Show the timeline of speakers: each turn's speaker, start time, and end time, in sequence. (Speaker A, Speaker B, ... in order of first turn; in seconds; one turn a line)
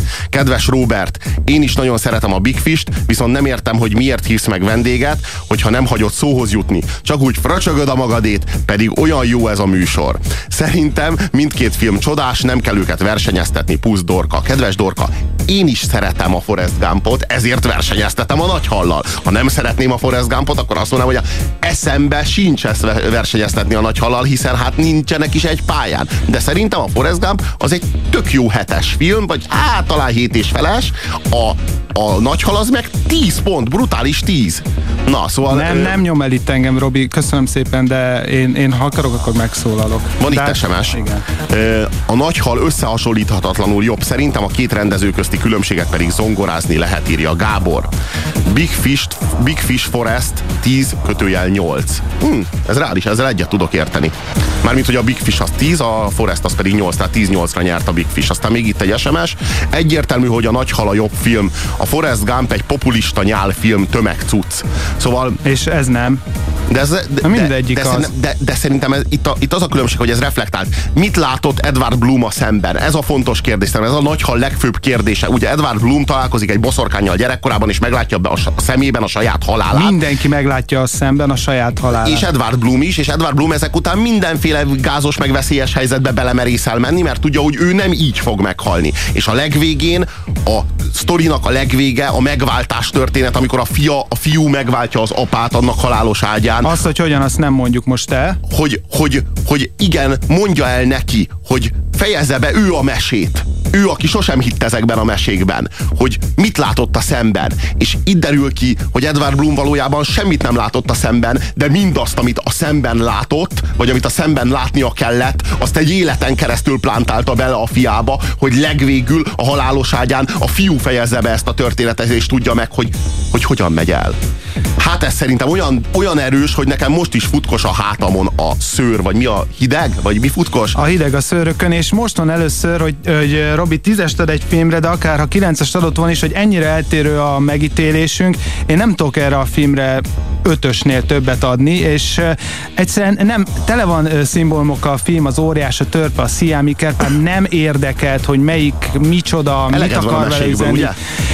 Speaker A: 0.3-36.0
Speaker B: 35.5-41.2
Speaker A: 40.2-47.9
Speaker A: 48.5-65.4
Speaker B: 65.4-66.2
Speaker A: 66.7-80.0
Speaker B: 67.2-68.1
Speaker B: 79.7-82.2
Speaker A: 81.9-96.7
Speaker B: 96.6-98.4
Speaker A: 98.5-124.2
Speaker A: 124.8-130.8
Speaker B: 130.8-150.9
Speaker A: 149.7-150.9